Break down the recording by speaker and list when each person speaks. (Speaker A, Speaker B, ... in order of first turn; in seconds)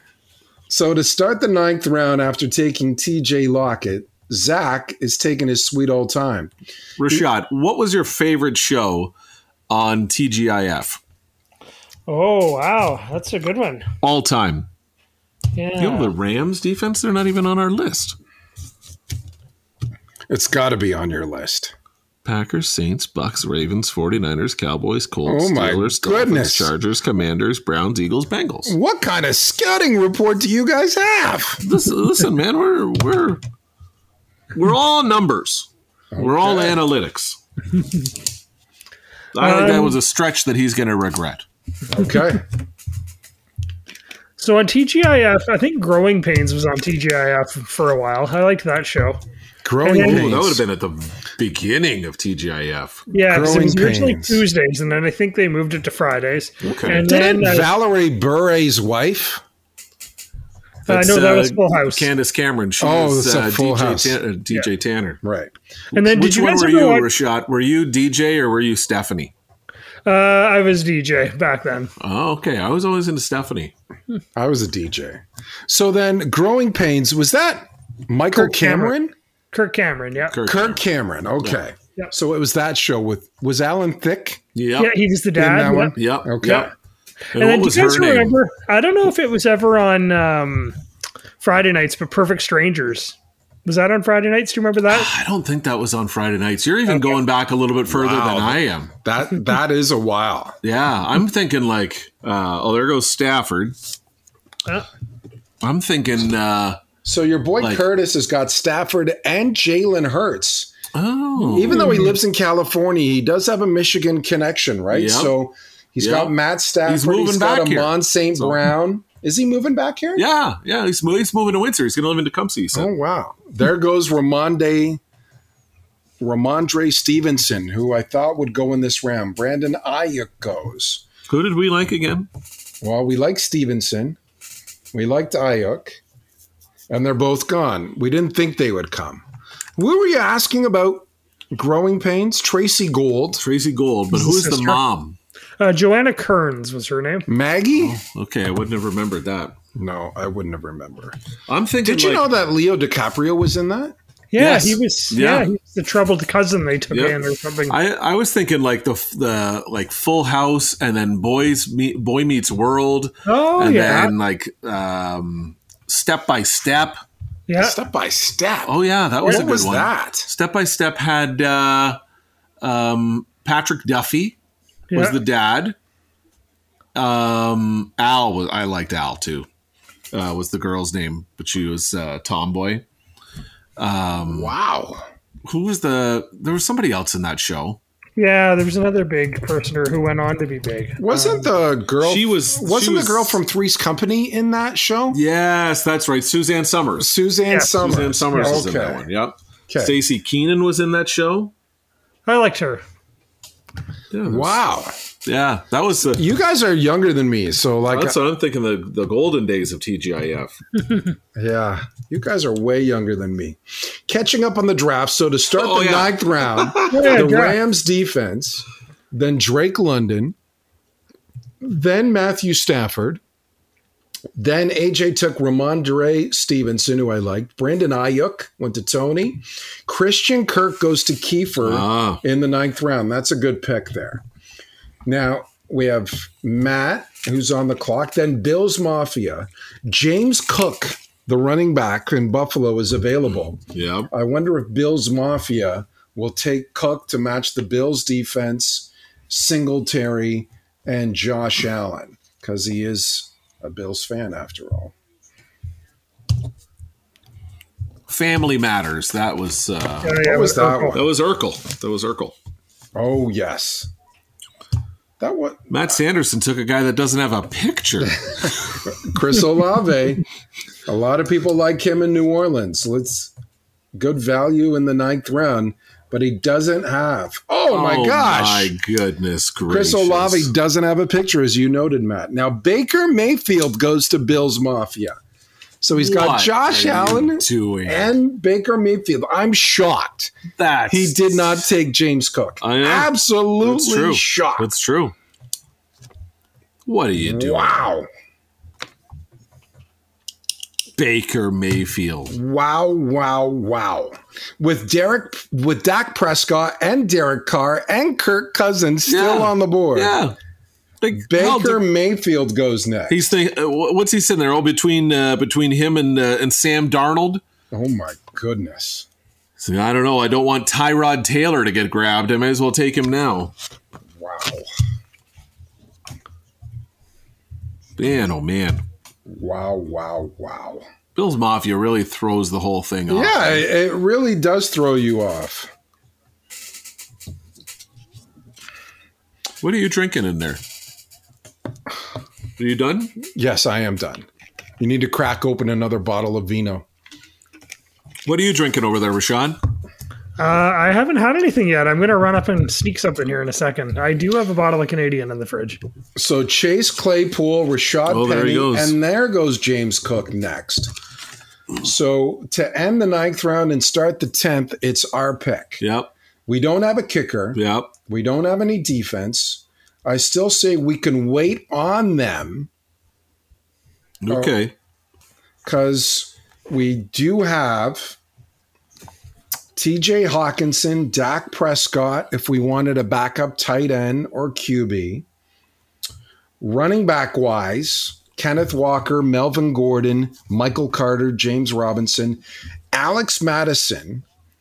Speaker A: 0.7-6.5, 20.3-21.7, 25.3-26.7, 28.6-31.6, 36.1-36.8, 41.9-42.4, 49.6-50.6, 53.3-54.4, 56.9-59.4, 62.8-64.2, 65.2-65.5, 74.3-79.1, 80.5-84.4, 85.3-86.7, 97.9-100.6, 107.0-110.7, 111.5-120.2, 122.7-125.0, 126.2-131.1, 132.8-134.2, 134.9-136.0, 136.9-139.2, 139.8-143.4, 147.3-148.0, 149.8-151.2, 151.8-154.0, 167.6-170.3, 184.2-185.1, 191.0-195.2, 197.0-199.1, 199.7-200.0, 204.2-204.9, 206.1-208.2, 211.3-220.3, 221.6-223.2, 224.4-234.2, 235.1-254.9, 260.2-261.1, 262.9-263.9, 265.2-266.0, 268.9-270.2, 270.9-273.3, 273.9-278.7, 279.7-285.2, 285.8-290.3, 290.9-294.7, 297.2-298.1, 302.3-310.2, 311.1-313.2, 317.7-319.1, 324.2-324.7, 329.3-330.9, 333.1-335.7, 343.2-344.3, 344.8-346.9, 356.2-360.9, 361.8-365.8, 366.5-372.7, 374.3-374.6, 375.6-378.2, 379.8-385.3, 386.6-394.2
Speaker B: 7.0-9.1, 9.7-11.0, 14.0-14.7, 15.8-18.2, 22.2-28.8, 31.6-33.4, 34.5-37.4, 39.3-41.4, 50.0-53.0, 56.6-57.0, 60.9-65.2, 65.9-69.3, 72.0-73.7, 80.3-80.8, 84.5-85.0, 86.0-86.7, 87.3-88.4, 94.9-98.9, 100.6-103.8, 105.6-106.8, 110.9-112.0, 114.9-115.3, 116.0-118.7, 120.2-122.9, 131.3-132.3, 143.4-145.2, 147.8-149.6, 151.5-152.3, 154.4-155.5, 156.9-157.2, 157.7-167.0, 168.7-172.0, 172.6-174.4, 174.9-175.8, 176.9-179.5, 180.1-182.8, 183.8-184.5, 185.5-187.8, 192.0-193.4, 195.1-197.1, 197.7-201.5, 204.1-204.6, 205.2-206.2, 207.9-210.6, 215.6-217.2, 231.6-232.2, 243.7-244.1, 258.1-260.2, 260.9-262.4, 265.7-268.3, 277.7-280.5, 286.0-288.1, 290.6-291.5, 292.6-295.1, 296.9-297.8, 301.0-302.3, 309.1-310.4, 311.0-311.8, 313.1-317.4, 319.6-323.5, 328.0-328.8, 331.1-333.6, 339.6-340.6, 342.6-343.2, 348.3-349.6, 358.1-359.0, 365.8-366.1, 367.6-367.9, 374.2-374.7
Speaker C: 12.1-13.9, 15.6-16.1, 39.4-40.0, 44.4-49.2, 49.8-50.3, 53.1-57.7, 60.9-62.1, 65.9-67.1, 70.1-71.9, 78.3-79.0, 79.5-80.4, 84.8-85.9, 87.4-90.8, 91.4-95.1, 96.9-97.2, 111.5-112.1, 144.1-144.8, 145.6-147.3, 154.3-157.8, 163.3-164.1, 167.5-167.8, 174.9-175.2, 188.2-191.5, 198.3-198.6, 202.3-202.8, 216.9-217.6, 260.0-261.0, 350.4-355.8